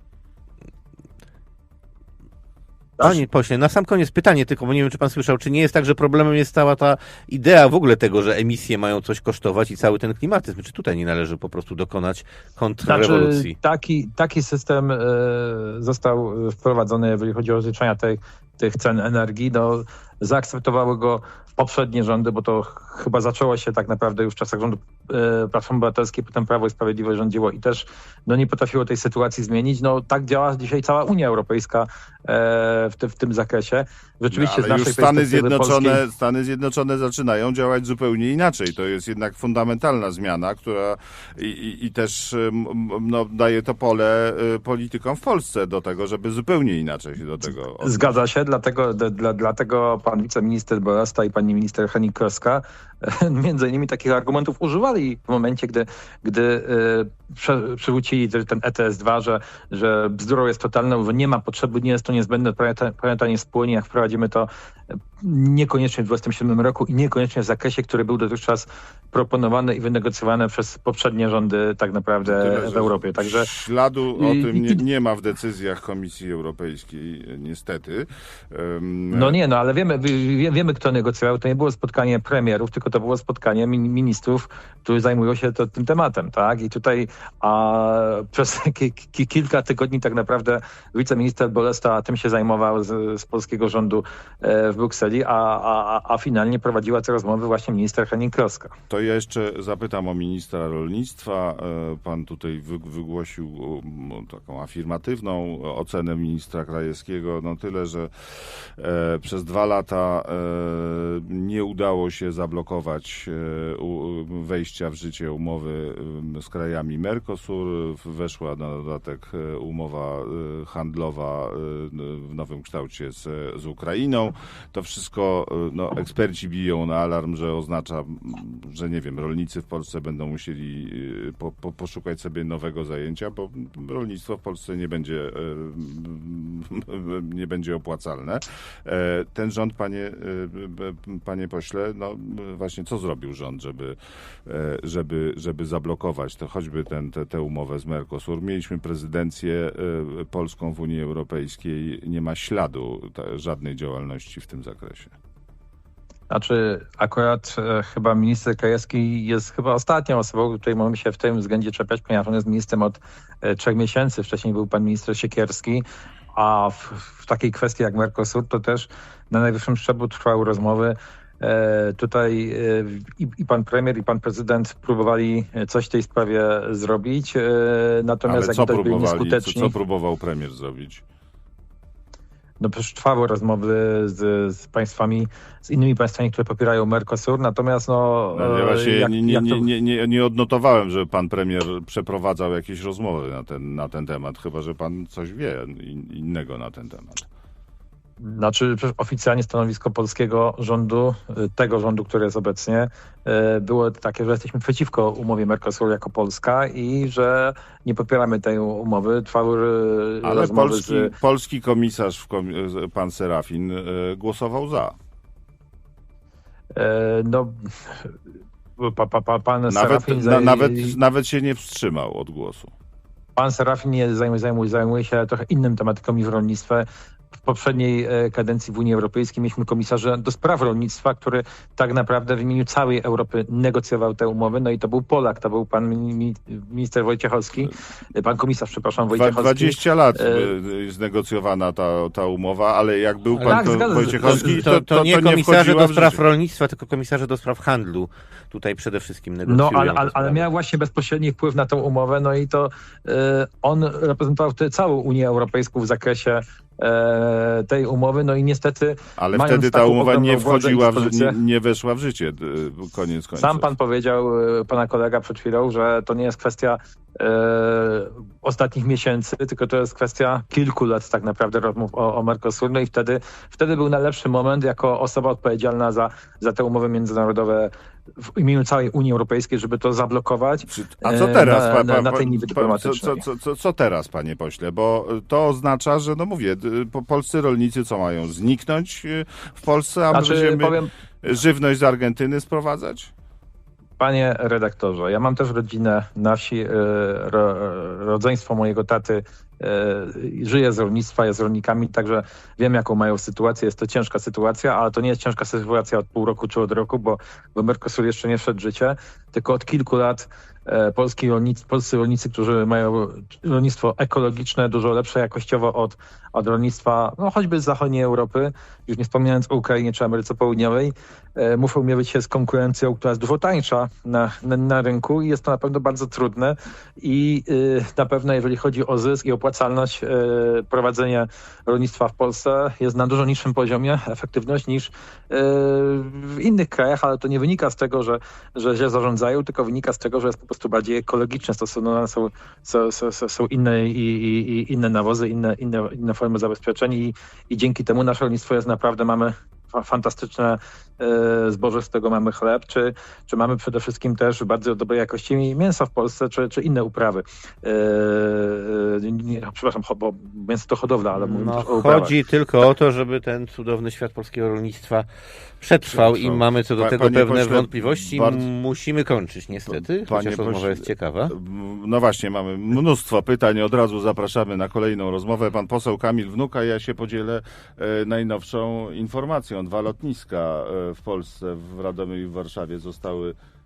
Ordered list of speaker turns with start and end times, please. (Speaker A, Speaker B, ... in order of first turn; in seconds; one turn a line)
Speaker A: 3.0-13.6
Speaker B: 12.9-36.0
Speaker C: 34.3-48.2
Speaker B: 47.8-64.5
Speaker B: 65.2-73.5
Speaker C: 72.2-79.4
Speaker B: 74.2-74.8
Speaker B: 79.1-98.8
Speaker C: 98.9-155.1
Speaker B: 156.3-179.7
Speaker C: 178.3-181.0
Speaker B: 182.6-189.7
Speaker C: 188.3-197.3
Speaker B: 198.2-211.1
Speaker C: 210.2-215.0
Speaker B: 216.7-218.1
Speaker B: 218.8-221.0
Speaker C: 219.7-222.7
Speaker B: 223.4-226.9
Speaker B: 227.4-240.5
Speaker C: 239.1-246.2
Speaker A: 243.4-250.5
Speaker B: 243.5-244.7
Speaker B: 249.5-261.4
Speaker C: 259.2-263.7
Speaker B: 263.4-283.2
Speaker C: 280.7-293.1
Speaker B: 290.1-290.9
Speaker B: 294.0-362.1
Speaker A: 361.2-365.1
Speaker A: 365.6-371.4
Speaker C: 365.9-368.5
Speaker C: 369.7-383.4